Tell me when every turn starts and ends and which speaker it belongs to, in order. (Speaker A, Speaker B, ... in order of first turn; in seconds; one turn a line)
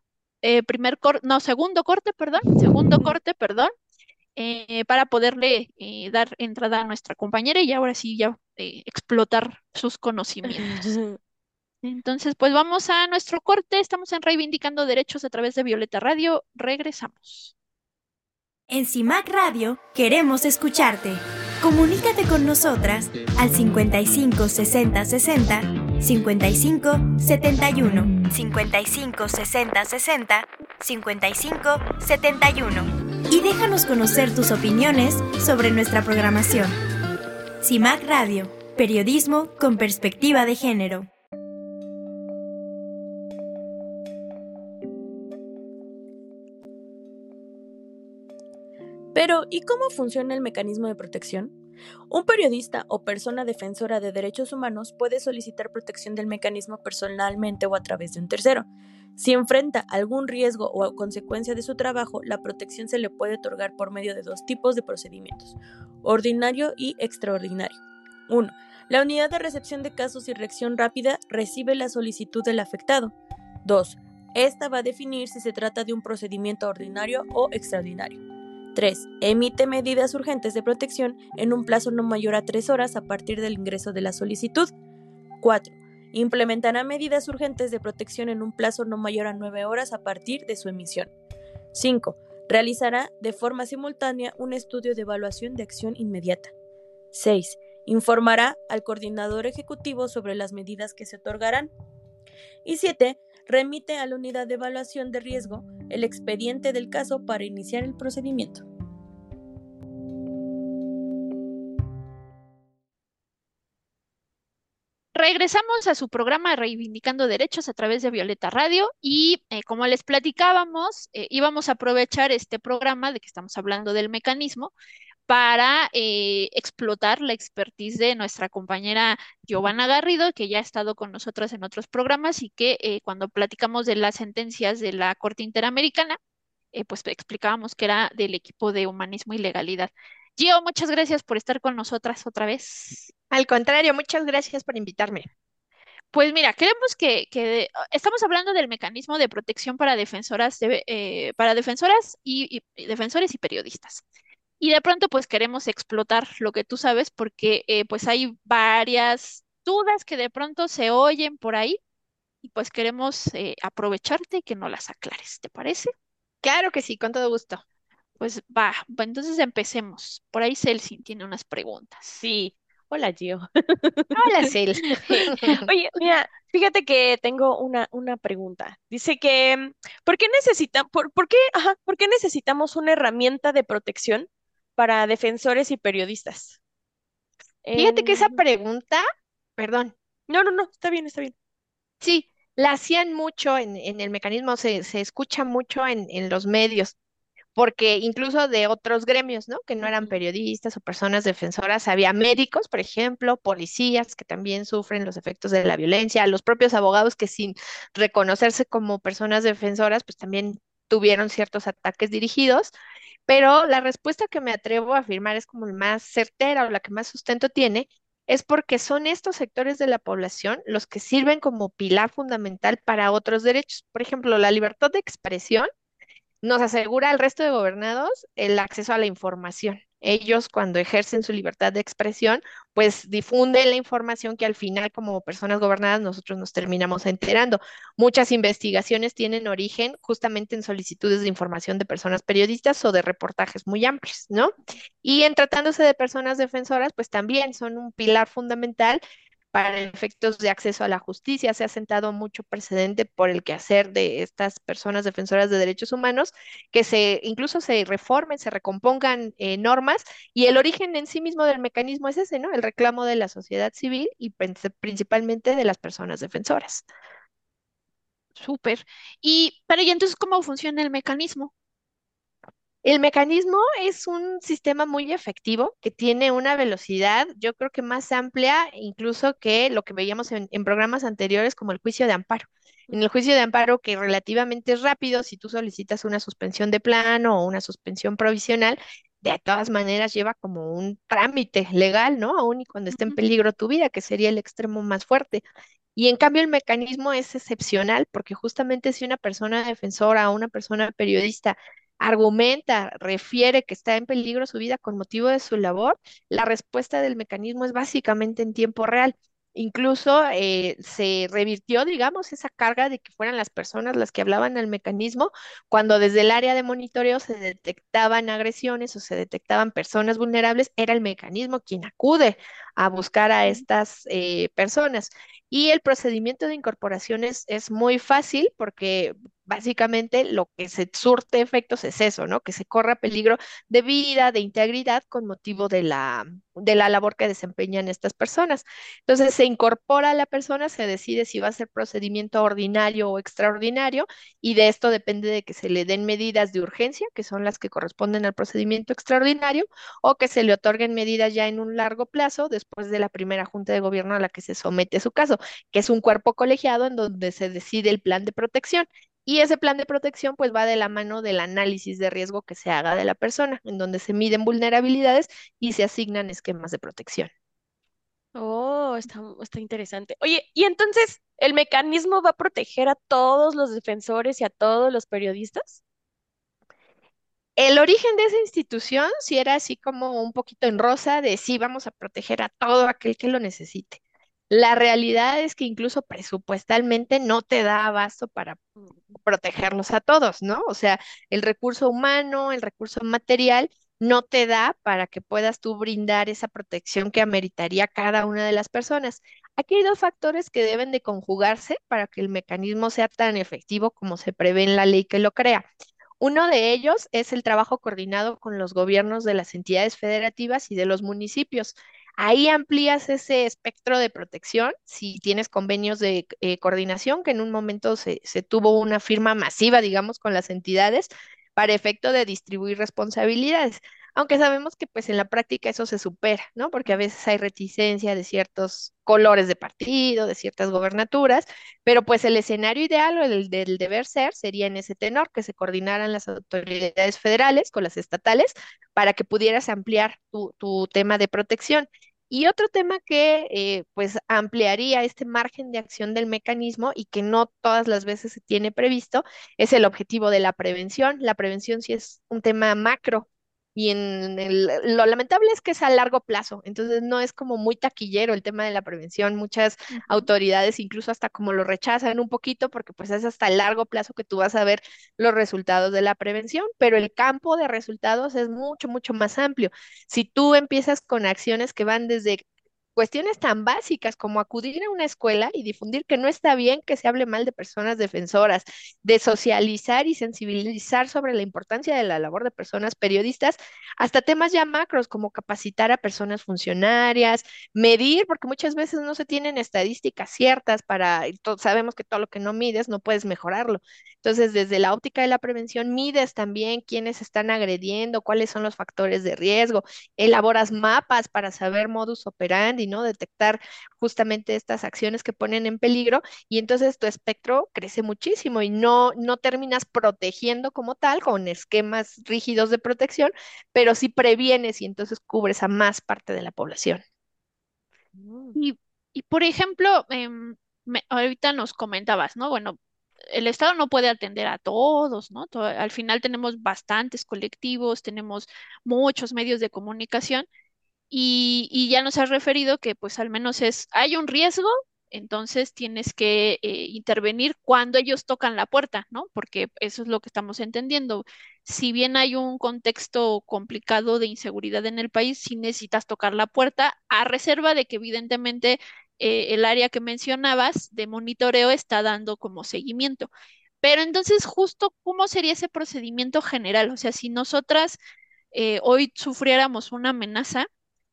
Speaker A: 0.4-3.7
Speaker A: 4.4-10.9
Speaker B: 10.7-11.2
Speaker A: 11.8-17.5
Speaker C: 18.7-36.8
Speaker C: 37.6-41.1
Speaker D: 49.1-51.5
Speaker D: 52.1-78.2
Speaker D: 78.8-84.7
Speaker D: 85.4-91.1
Speaker D: 91.7-96.5
Speaker D: 97.1-101.7
Speaker D: 102.7-108.7
Speaker A: 115.1-124.7
Speaker A: 125.3-136.2
Speaker A: 136.7-143.1
Speaker E: 143.3-145.3
Speaker A: 146.1-154.0
Speaker A: 154.6-161.8
Speaker A: 162.4-165.9
Speaker E: 166.4-167.6
Speaker A: 168.2-172.2
Speaker B: 172.2-174.2
Speaker E: 174.2-175.7
Speaker A: 175.1-175.6
Speaker B: 175.1-186.6
Speaker B: 187.6-188.4
Speaker E: 187.8-189.1
Speaker E: 189.6-189.9
Speaker B: 190.3-191.3
Speaker E: 192.0-196.9
Speaker E: 197.6-212.7
Speaker B: 199.8-200.1
Speaker E: 213.3-225.7
Speaker E: 226.4-249.0
Speaker E: 249.5-266.9
Speaker A: 268.4-271.5
Speaker E: 272.8-295.4
Speaker E: 296.0-367.3
Speaker B: 368.4-375.8
Speaker E: 377.6-405.7
Speaker E: 406.2-472.4
Speaker E: 473.0-517.0
Speaker B: 518.1-518.6
Speaker A: 518.5-522.8
Speaker A: 523.3-530.5
Speaker A: 531.1-553.3
Speaker A: 553.8-558.0
Speaker A: 558.5-560.7